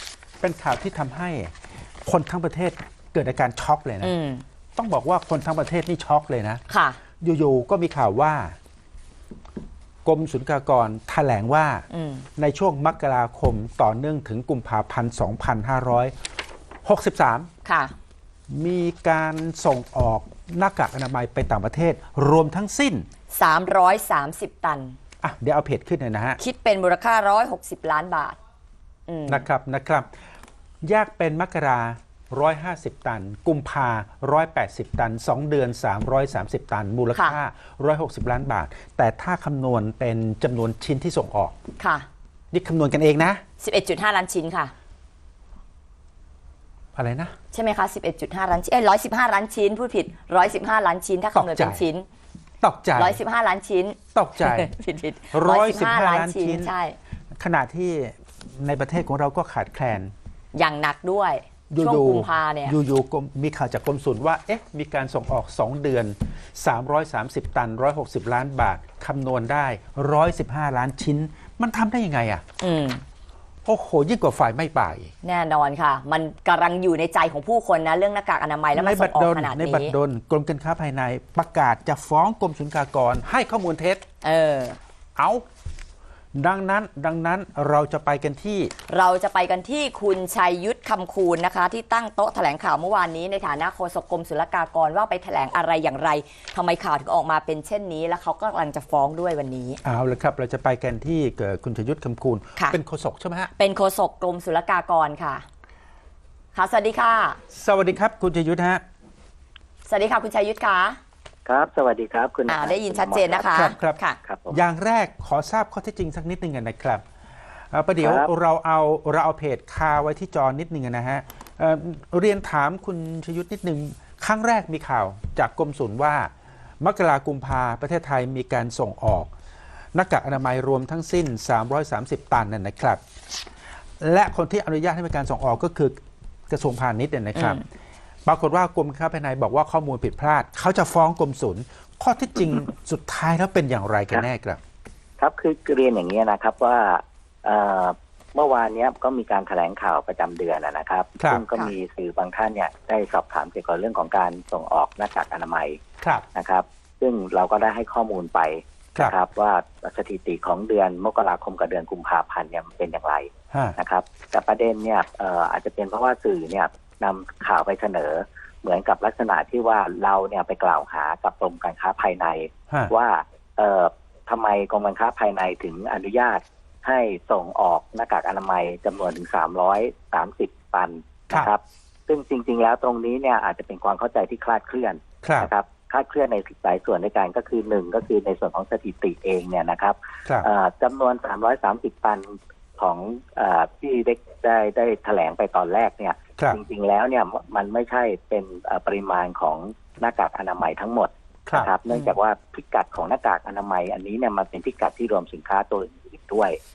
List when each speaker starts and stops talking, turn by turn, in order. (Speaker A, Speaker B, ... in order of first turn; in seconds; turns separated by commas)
Speaker A: 0.4-4.1, Speaker B: 4.0-4.4, Speaker A: 4.8-6.6, Speaker B: 6.7-7.0, Speaker A: 7.2-8.6, Speaker A: 10.1-11.9, Speaker B: 11.9-12.3, Speaker A: 12.4-16.1, Speaker A: 16.8-17.5, Speaker B: 17.6-17.9, Speaker A: 18.5-23.1, Speaker B: 23.3-25.0, Speaker A: 25.2-26.4, Speaker B: 26.4-28.4, Speaker B: 29.1-29.5, Speaker A: 29.3-30.1, Speaker A: 30.8-41.5, Speaker B: 37.1-37.4, Speaker B: 41.8-42.1, Speaker A: 42.5-43.4, Speaker B: 43.6-44.7, Speaker A: 47.0-47.3, Speaker B: 47.5-52.1, Speaker A: 51.3-51.9, Speaker A: 52.6-53.2, Speaker B: 53.0-57.0, Speaker A: 54.1-54.7, Speaker A: 55.3-56.7, Speaker A: 57.4-60.1, Speaker B: 60.5-62.8, Speaker A: 61.7-72.5, Speaker B: 72.6-73.0, Speaker A: 73.7-75.1, Speaker B: 75.2-80.0, Speaker A: 78.7-84.0, Speaker B: 84.2-84.8, Speaker A: 85.2-85.5, Speaker A: 86.3-88.7, Speaker B: 88.9-99.8, Speaker A: 99.8-103.5, Speaker B: 103.6-105.5, Speaker B: 106.5-107.4, Speaker A: 107.5-108.8, Speaker B: 109.9-111.0, Speaker C: 111.5-113.5, Speaker B: 112.5-114.2, Speaker A: 113.5-114.0, Speaker C: 114.2-114.6, Speaker A: 114.5-117.0, Speaker A: 117.7-129.3, Speaker C: 118.0-118.3, Speaker A: 129.9-133.0, Speaker A: 134.0-137.7, Speaker B: 137.3-137.6, Speaker A: 138.3-144.6, Speaker C: 145.2-155.8, Speaker A: 151.2-151.4, Speaker A: 156.0-156.3, Speaker C: 156.3-206.6, Speaker A: 163.5-163.8, Speaker A: 185.2-185.5, Speaker A: 201.5-201.7